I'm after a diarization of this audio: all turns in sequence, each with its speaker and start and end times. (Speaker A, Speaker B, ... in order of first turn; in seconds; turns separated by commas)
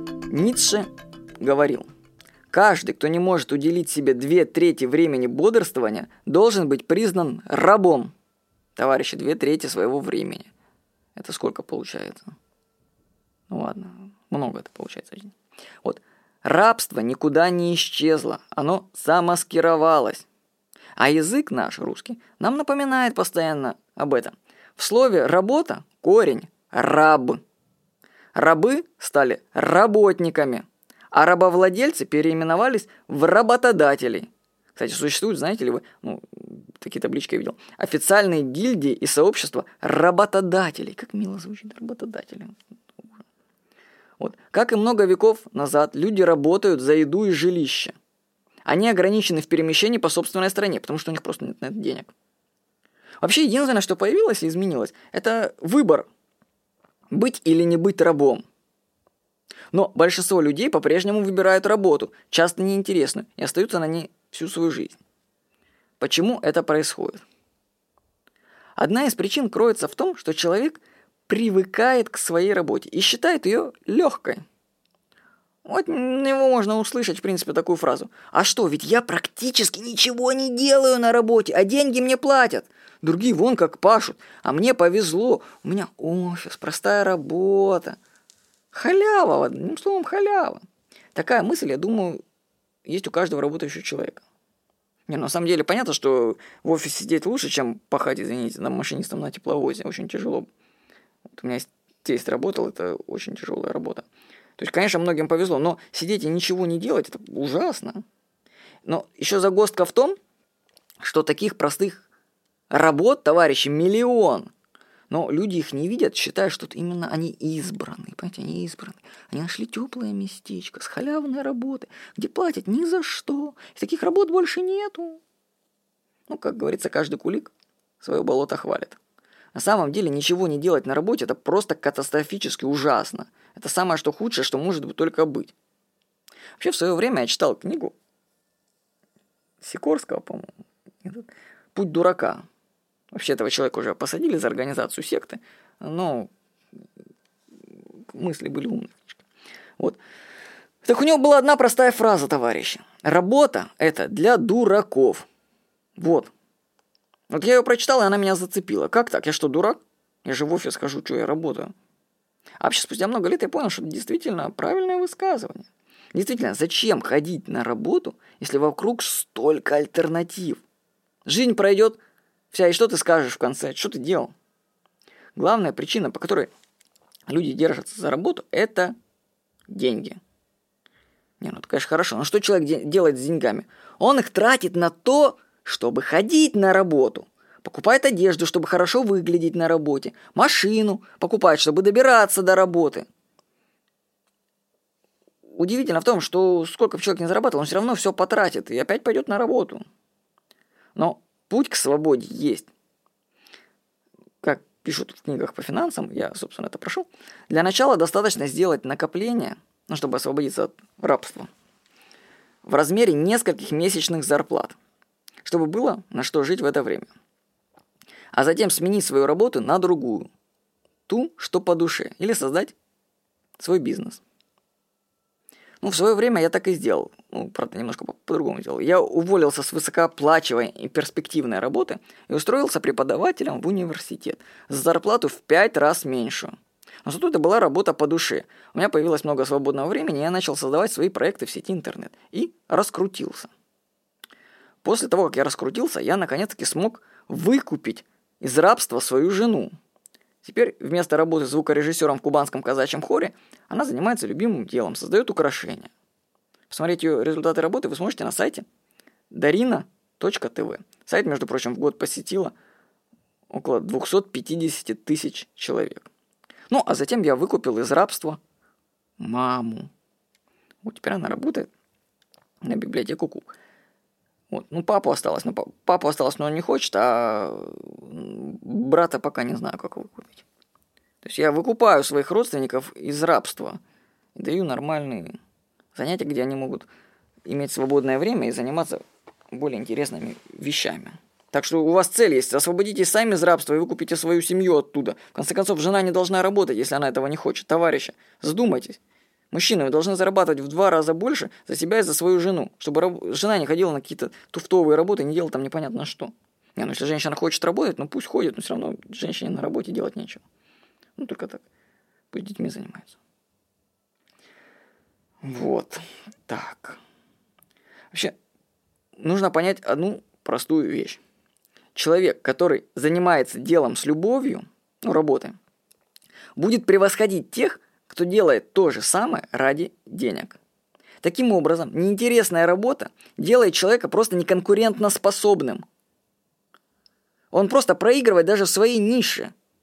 Speaker A: 0.3-0.9, Speaker A: 1.4-1.9, Speaker A: 2.5-8.1, Speaker A: 8.8-10.5, Speaker A: 11.2-12.4, Speaker A: 13.5-20.3, Speaker A: 21.0-27.4, Speaker A: 28.3-42.6, Speaker A: 44.2-48.0, Speaker A: 48.6-52.1, Speaker A: 53.2-56.1, Speaker A: 57.1-58.4, Speaker A: 59.7-65.0, Speaker A: 66.0-67.2, Speaker A: 68.8-74.4, Speaker A: 75.6-88.0, Speaker A: 88.7-90.6, Speaker A: 91.1-92.2, Speaker A: 92.8-94.2, Speaker A: 95.1-100.5, Speaker A: 101.3-104.1, Speaker A: 104.6-108.0, Speaker A: 108.8-110.2, Speaker A: 111.0-112.1, Speaker A: 112.7-114.5, Speaker A: 115.1-125.2, Speaker A: 126.3-129.0, Speaker A: 129.5-135.5, Speaker A: 136.6-137.9, Speaker A: 139.6-140.5, Speaker A: 141.0-142.4, Speaker A: 143.1-146.3, Speaker A: 148.1-149.2, Speaker A: 150.8-155.3, Speaker A: 156.0-156.3, Speaker A: 157.3-161.7, Speaker A: 162.6-170.6, Speaker A: 171.2-172.0, Speaker A: 172.5-174.3, Speaker A: 175.4-176.5, Speaker A: 177.3-178.9, Speaker A: 179.7-180.2, Speaker A: 181.4-193.1, Speaker A: 195.5-199.8, Speaker A: 200.9-202.7, Speaker A: 204.4-211.5, Speaker A: 212.7-214.8, Speaker A: 215.4-217.1, Speaker A: 218.3-220.3, Speaker A: 221.1-222.7, Speaker A: 223.6-224.2, Speaker A: 225.8-236.5, Speaker A: 237.0-243.5, Speaker A: 244.8-249.7, Speaker A: 250.4-255.9, Speaker A: 256.7-258.7, Speaker A: 259.3-262.6, Speaker A: 263.5-266.1, Speaker A: 266.7-268.4, Speaker A: 269.2-269.9, Speaker A: 270.8-271.7, Speaker A: 272.6-273.5, Speaker A: 274.5-280.4, Speaker A: 281.2-283.8, Speaker A: 284.4-285.4, Speaker A: 285.9-286.9, Speaker A: 287.4-299.0, Speaker A: 299.5-310.4, Speaker A: 311.2-311.6, Speaker A: 312.3-313.2, Speaker A: 315.4-317.0, Speaker A: 319.2-321.2, Speaker A: 321.9-325.6, Speaker A: 326.6-330.6, Speaker A: 331.2-335.8, Speaker A: 337.5-339.5